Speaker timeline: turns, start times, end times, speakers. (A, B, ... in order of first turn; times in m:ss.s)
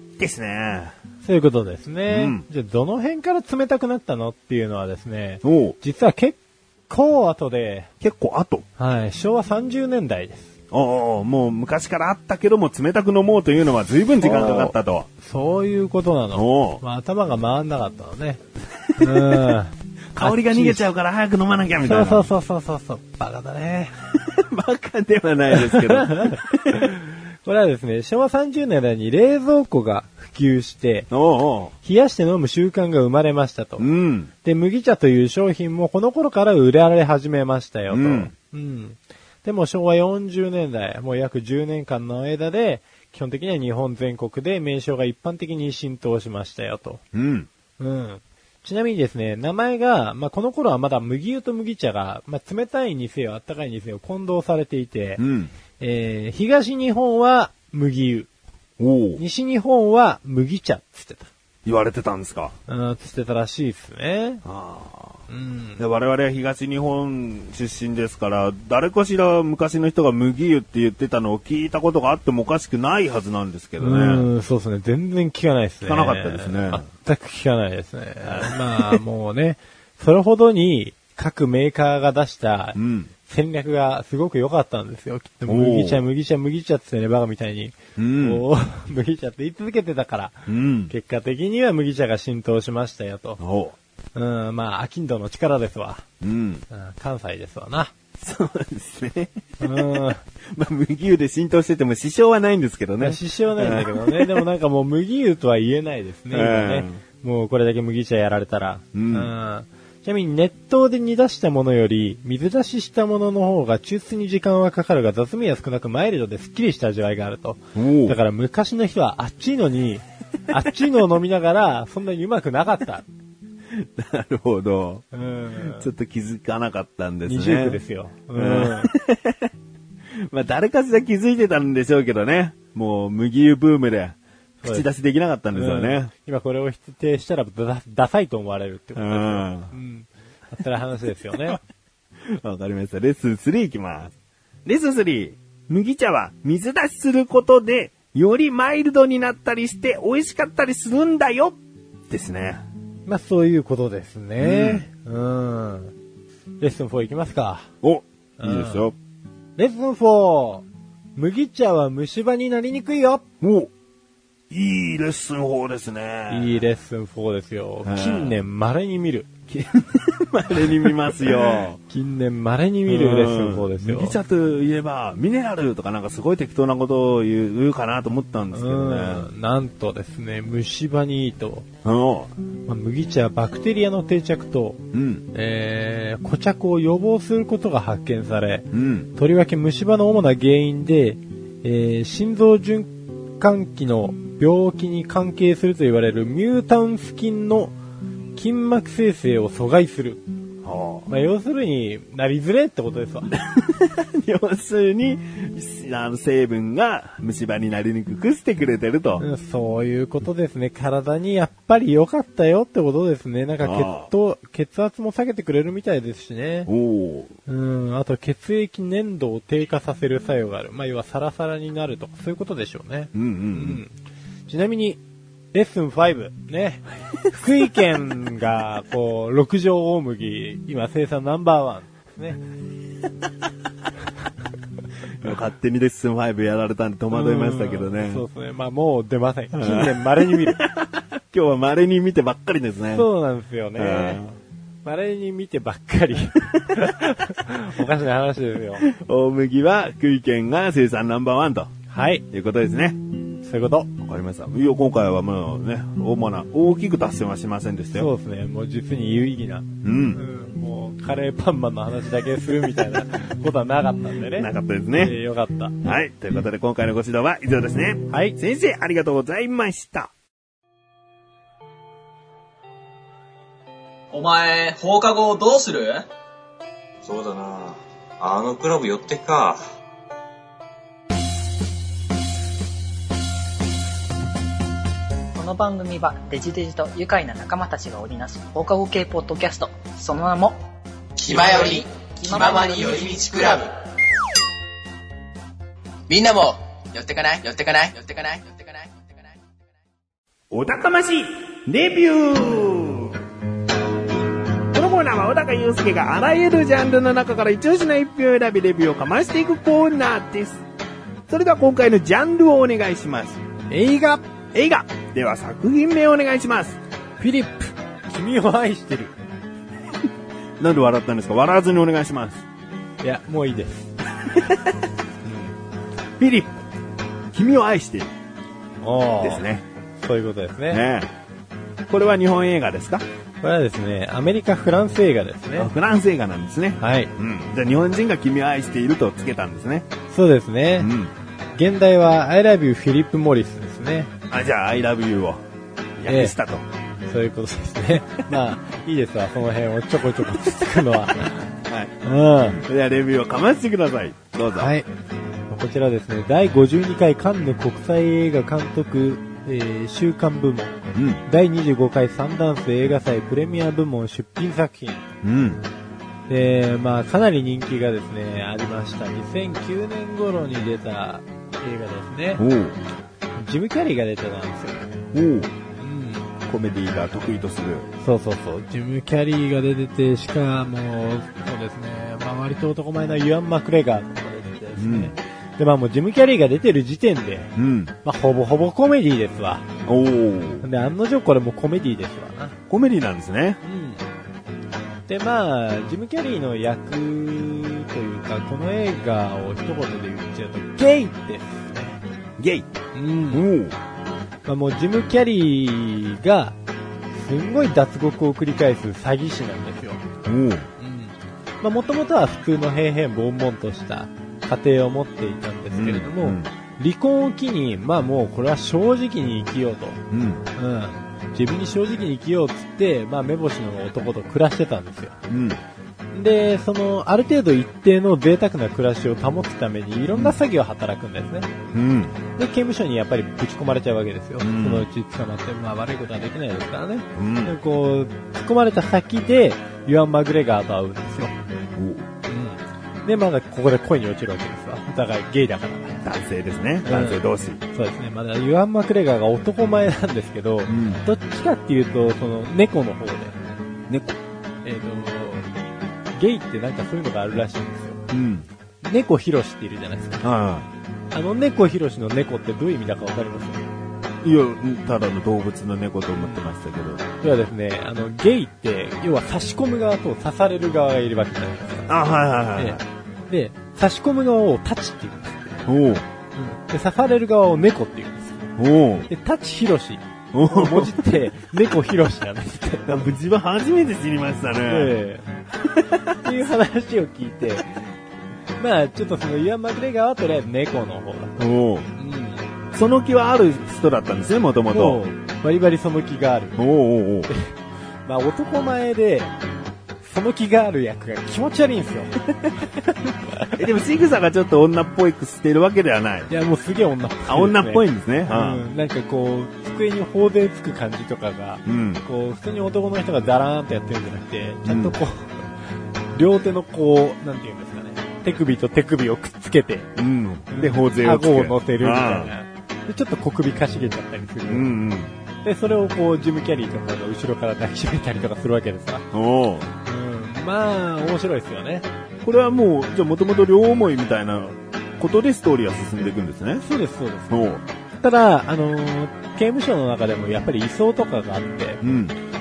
0:00.2-0:00.9 A
0:01.2-0:06.4 B
0:02.1-0:02.4 A
0:05.4-0:05.8 A
0:06.9-0:07.9 B
0:08.0-0:08.6 A
0:08.8-0:10.5 B
0:10.7-0:15.1 A
0:14.2-0:18.4 B
0:16.3-0:16.8 A
0:19.0-0:19.5 A
0:19.0-0:20.9 B
0:20.1-0:22.3 A
0:21.8-0:23.9 B
0:24.1-0:26.9 A
0:25.5-0:31.1 B
0:31.1-0:31.7 A
0:31.8-0:33.9 B
0:33.8-0:34.3 A
0:34.4-0:47.0 B
0:37.9-0:38.3 A
0:47.1-0:47.5 A
0:47.8-0:55.2 B
0:55.2-0:55.5 A
0:55.8-0:58.3 B
0:58.8-0:59.2 A
0:59.2-1:01.3 B
1:01.6-1:02.6 A
1:02.7-1:04.4 B
1:04.4-1:05.2 A
1:05.3-1:05.8 B
1:05.8-1:14.3 A
1:13.8-1:33.4 B
1:15.8-1:16.8 A
1:18.2-1:19.0 A
1:22.8-1:23.1 A
1:25.4-1:26.0 A
1:28.0-1:28.4 A
1:30.5-1:30.9 A
1:33.4-1:33.7 A
1:34.1-1:36.0 B
1:36.2-1:36.6 A
1:36.7-1:37.9 B
1:38.2-1:39.9 A
1:39.6-1:40.2 B
1:40.5-1:44.4 A
1:43.0-2:03.0 B
1:46.3-1:47.0 A
1:48.9-1:49.3 A
1:57.7-1:58.2 A
2:03.7-2:07.8 A
2:05.1-2:05.9 B
2:07.2-2:08.9 B
2:08.3-2:09.5 A
2:10.1-2:16.1 A
2:15.5-2:21.6 B
2:18.9-2:19.7 A
2:22.2-2:24.1 A
2:24.6-2:31.6 A
2:32.1-2:32.6 A
2:33.0-2:35.9 B
2:34.4-2:34.9 A
2:36.6-2:37.7 B
2:37.8-2:38.9 A
2:38.4-2:38.9 B
2:39.6-2:43.2 B
2:43.4-2:43.7 A
2:44.5-2:46.6 A
2:46.3-2:49.3 B
2:47.8-2:48.4 A
2:49.5-2:51.8 A
2:51.9-2:54.2 B
2:52.9-2:59.3 A
2:58.5-3:01.7 B
3:01.8-3:02.3 A
3:02.7-3:04.8 B
3:04.9-3:05.2 A
3:05.3-3:17.7 B
3:08.7-3:09.1 A
3:18.4-3:20.2 B
3:20.6-3:21.1 A
3:21.1-3:23.3 B
3:23.4-3:29.2 A
3:29.2-3:36.7 B
3:33.6-3:34.1 A
3:36.7-3:37.3 A
3:37.4-3:43.9 B
3:43.1-3:43.8 A
3:44.5-3:45.0 B
3:45.5-3:52.4 B
3:55.2-3:58.2 A
3:57.1-4:00.6 B
3:59.5-4:03.1 A
4:02.9-4:04.2 B
4:03.7-4:04.4 A
4:04.8-4:08.9 B
4:08.8-4:11.7 A
4:11.9-4:12.2 B
4:12.3-4:13.0 A
4:13.4-4:13.9 B
4:14.0-4:18.1 A
4:17.9-4:25.8 B
4:19.8-4:20.2 A
4:24.3-4:25.2 A
4:25.8-4:30.1 A
4:28.1-4:28.4 B
4:34.1-4:36.1 C
4:37.0-4:39.7 D
4:45.4-4:50.6 E
4:51.2-4:53.7 F
4:51.3-4:53.1 E
4:56.1-4:59.4 F
5:00.5-5:03.2 A
5:04.7-5:10.6 A
5:11.3-5:13.4 A
5:13.7-5:14.4 B
5:14.5-5:16.8 A
5:17.2-5:19.2 B
5:20.6-5:22.4 A
5:23.0-5:23.9 B
5:24.2-5:24.7 A
5:25.2-5:25.5 B
5:26.2-5:26.6 A
5:27.3-5:28.1 A
5:28.8-5:29.4 B
5:29.2-5:29.6 A
5:30.0-5:30.8 B
5:30.7-5:31.1 A
5:31.9-5:33.0 A
5:33.4-5:35.7 B
5:35.6-5:39.9 A
5:36.8-5:37.1 B
5:40.1-5:40.9 B
5:40.8-5:41.1 A
5:41.6-5:44.1 B
5:44.3-5:45.4 A
5:46.0-5:46.6 A
5:46.1-5:46.4 B
5:47.1-5:51.5 B
5:51.6-5:51.9 A
5:52.0-5:52.6 B
5:52.4-5:54.7 A
5:54.5-5:54.9 B
5:55.5-6:05.1 B
6:00.9-6:01.2 A
6:05.2-6:05.6 A
6:06.3-6:12.4 B
6:12.4-6:12.8 A
6:13.4-6:14.9 B
6:15.1-6:15.5 A
6:15.8-6:16.3 B
6:16.5-6:17.9 A
6:18.0-6:27.5 B
6:24.8-6:25.1 A
6:27.6-6:27.9 A
6:28.0-6:29.7 B
6:29.8-6:30.6 A
6:30.6-6:32.6 B
6:32.7-6:33.6 A
6:33.6-6:34.0 B
6:35.1-6:42.0 B
6:42.4-6:42.7 A
6:42.9-6:43.5 B
6:43.3-6:43.8 A
6:44.4-6:46.6 B
6:47.1-6:50.0 B
6:50.2-6:50.7 A
6:50.8-7:00.0 B
6:55.7-6:56.5 A
7:00.1-7:00.4 A
7:00.6-7:05.2 B
7:05.3-7:05.6 A
7:06.1-7:11.5 B
7:10.1-7:10.4 A
7:11.7-7:12.2 A
7:12.4-7:21.3 B
7:14.4-7:14.9 A
7:17.1-7:17.5 A
7:21.8-7:22.1 A
7:22.2-7:26.0 B
7:26.0-7:27.6 A
7:26.8-7:27.2 B
7:27.7-7:33.4 B
7:30.7-7:31.0 A
7:33.9-7:34.2 A
7:34.6-7:35.5 B
7:36.1-7:38.0 B
7:38.1-7:38.5 A
7:38.8-7:40.2 B
7:40.2-7:40.7 A
7:41.1-7:43.6 B
7:44.2-7:47.0 A
7:46.2-7:46.5 B
7:47.2-7:52.0 B
7:51.9-7:52.8 A
7:52.5-7:55.6 B
7:55.7-7:56.0 A
7:56.3-7:58.5 B
7:58.6-7:59.1 A
7:59.1-8:03.0 B
8:00.3-8:01.1 A
8:02.8-8:05.0 A
8:04.6-8:05.3 B
8:05.6-8:06.3 A
8:06.2-8:07.9 B
8:08.6-8:11.4 B
8:11.4-8:11.9 A
8:11.9-8:12.4 B
8:12.7-8:15.0 A
8:14.7-8:16.6 B
8:16.6-8:17.3 A
8:17.3-8:19.3 B
8:20.0-8:22.2 B
8:23.6-8:26.3 A
8:26.3-8:35.5 B
8:27.3-8:28.6 A
8:31.6-8:32.0 A
8:34.6-8:35.0 A
8:36.1-8:39.9 B
8:40.0-8:42.3 A
8:40.5-8:44.7 B
8:44.4-8:45.1 A
8:45.4-8:49.1 B
8:49.1-8:49.7 A
8:49.8-8:51.9 B
8:52.2-8:56.6 A
8:56.6-8:57.3 B
8:57.3-8:57.6 A
8:58.0-9:01.8 B
9:01.8-9:02.2 A